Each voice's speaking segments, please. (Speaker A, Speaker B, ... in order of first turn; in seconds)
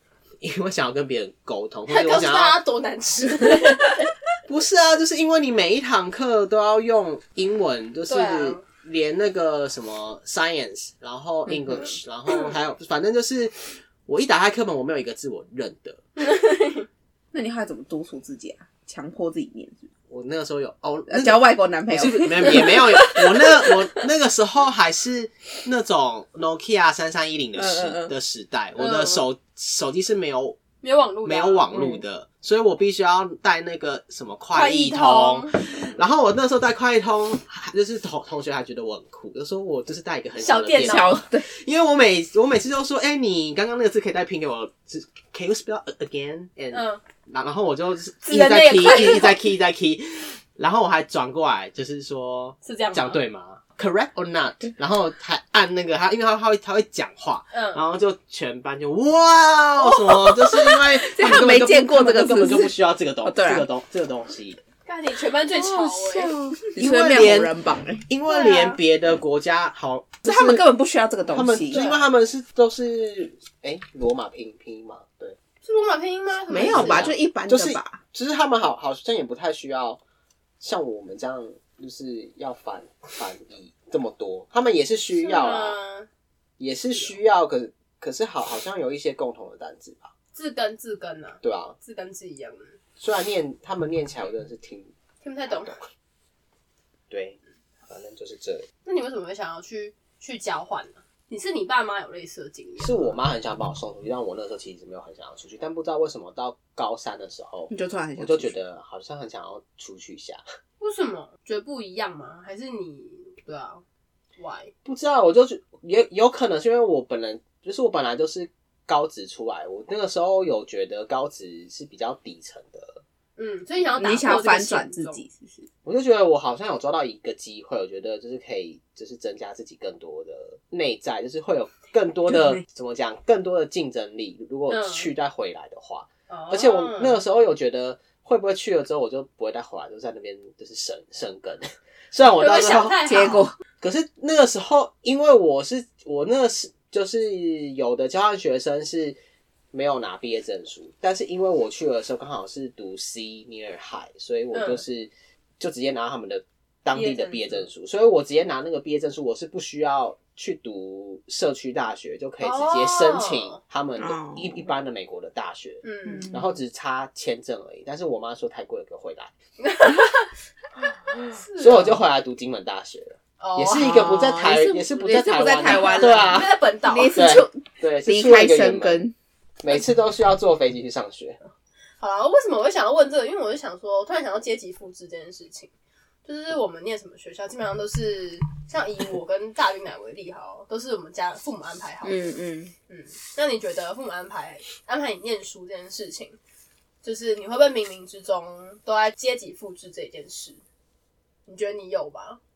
Speaker A: 0.4-2.6, 4.5-16.0, 20.1-30.6, 31.2-64.6, 66.8-67.5, 68.1-70.6, 71.3-75.4, 76.5-80.0, 80.6-85.8, 86.6-90.1, 91.4-91.8, 93.0-94.9, 95.5-95.8, 97.1-98.7, 102.8-110.4, 114.8-123.0, 125.8-143.2, 143.8-149.2, 149.7-169.3, 171.6-176.6, 177.1-179.0, 179.6-181.4
Speaker B: 1.9-4.1, 8.1-8.6, 16.2-16.9, 28.8-29.2, 30.8-31.9, 34.5-35.5, 40.4-41.2, 46.7-47.0, 48.2-49.4, 52.6-53.2, 57.5-57.8, 64.8-66.4, 68.3-68.8, 71.7-72.1, 75.6-77.1, 85.2-86.1, 90.3-92.7, 95.2-95.8, 98.8-103.2, 110.8-113.8, 114.4-114.7, 123.4-125.2, 134.7-135.1, 136.3-137.2, 142.3-143.5, 154.5-154.8, 156.9-157.7, 162.4-163.6, 165.8-166.3, 169.6-170.3, 171.1-172.0, 173.4-174.2, 175.6-177.2, 182.0-185.7, 186.2-192.3, 192.9-196.4, 197.0-200.6, 201.4-202.4
Speaker C: 11.5-11.9, 17.3-19.9, 21.1-23.2, 27.6-28.1, 40.8-41.5, 59.8-63.7, 65.5-68.1, 70.2-71.9, 76.5-78.0, 107.7-108.5, 124.0-125.7, 132.3-132.6, 143.0-143.5, 164.0-164.7, 166.1-166.5, 173.8-179.1, 192.0-192.7